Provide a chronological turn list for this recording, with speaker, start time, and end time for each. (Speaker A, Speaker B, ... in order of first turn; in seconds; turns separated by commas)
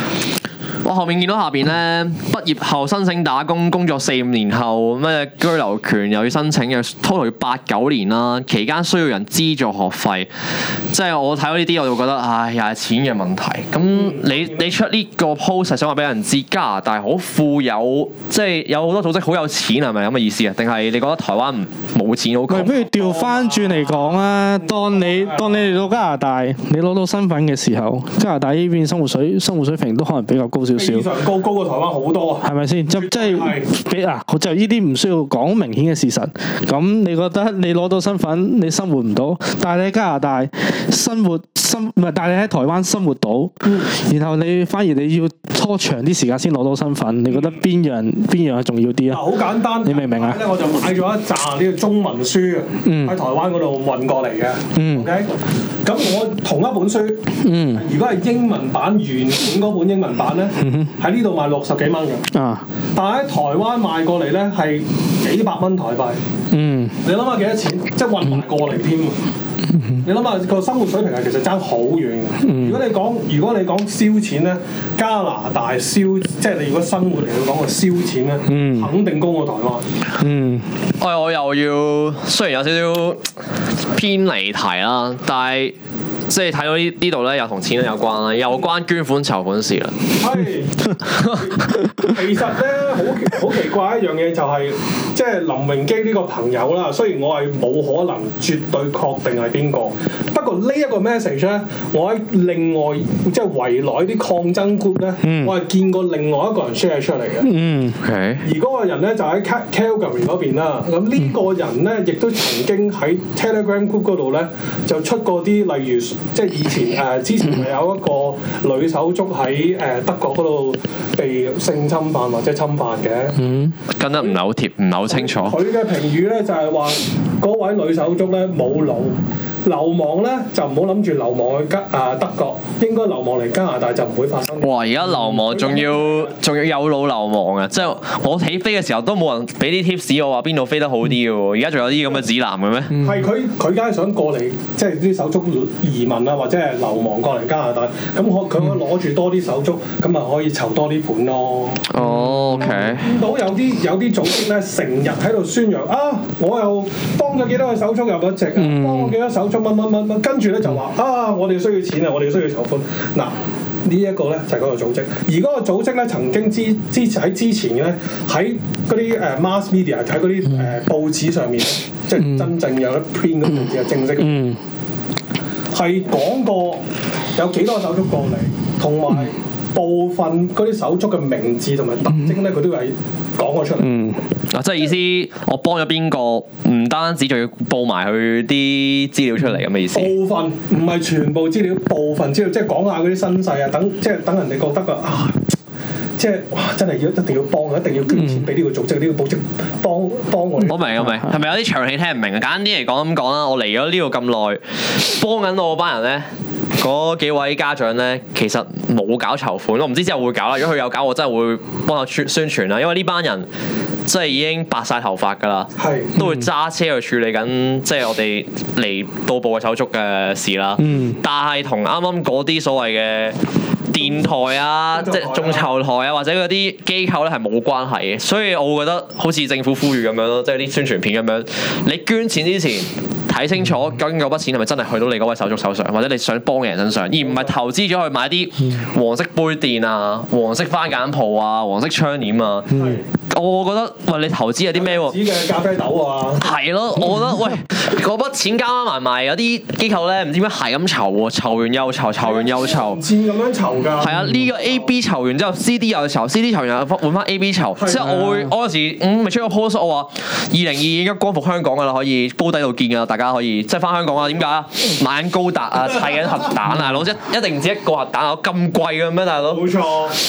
Speaker A: 0.8-22.9, Speaker B: 13.9-14.7, Speaker C: 22.5-31.1, Speaker B: 22.9-25.7, Speaker B: 30.8-33.7, Speaker C: 32.4-50.4, Speaker B: 47.3-47.6, Speaker B: 49.1-55.3, Speaker C: 52.8-53.2, Speaker C: 54.8-55.1, Speaker B: 55.8-62.2, Speaker C: 57.4-57.9, Speaker C: 60.6-61.0, Speaker C: 62.3-62.7, Speaker B: 63.0-66.2, Speaker C: 66.5-67.0, Speaker B: 67.0-69.2, Speaker C: 69.7-70.1, Speaker B: 70.0-79.9, Speaker C: 72.4-72.8, Speaker C: 78.5-78.9, Speaker C: 80.2-80.7, Speaker A: 81.0-85.8, Speaker A: 86.3-90.0, Speaker B: 90.2-90.8, Speaker A: 91.0-91.5, Speaker B: 92.0-107.5, Speaker C: 105.2-105.5, Speaker C: 107.4-108.0, Speaker A: 108.0-108.5, Speaker B: 108.4-123.4, Speaker C: 123.4-123.8, Speaker A: 123.9-125.6, Speaker B: 125.1-136.3, Speaker A: 134.6-142.9, Speaker C: 142.9-143.3, Speaker B: 143.0-151.9, Speaker A: 151.9-153.1, Speaker C: 152.0-153.0, Speaker B: 152.6-174.4, Speaker C: 158.6-159.2, Speaker C: 170.5-170.8, Speaker C: 172.2-172.5, Speaker C: 173.5-174.6, Speaker B: 175.7-176.8, Speaker B: 177.3-183.9, Speaker C: 183.8-184.2, Speaker A: 184.5-190.1, Speaker B: 189.9-195.4, Speaker B: 196.2-201.0, Speaker C: 198.1-198.5, Speaker A: 200.6-213.5, Speaker C: 201.0-201.3, Speaker A: 214.1-242.8, Speaker B: 215.8-216.2, Speaker C: 216.2-216.5, Speaker C: 220.8-221.2, Speaker B: 224.9-225.6, Speaker B: 237.2-237.5, Speaker C: 242.7-243.0, Speaker B: 242.7-243.1, Speaker A: 243.3-245.2, Speaker B: 244.7-246.6, Speaker A: 246.4-253.0, Speaker B: 252.2-254.7, Speaker A: 254.0-269.7, Speaker C: 254.2-254.4, Speaker B: 257.8-258.2, Speaker C: 258.2-258.5, Speaker B: 269.4-270.2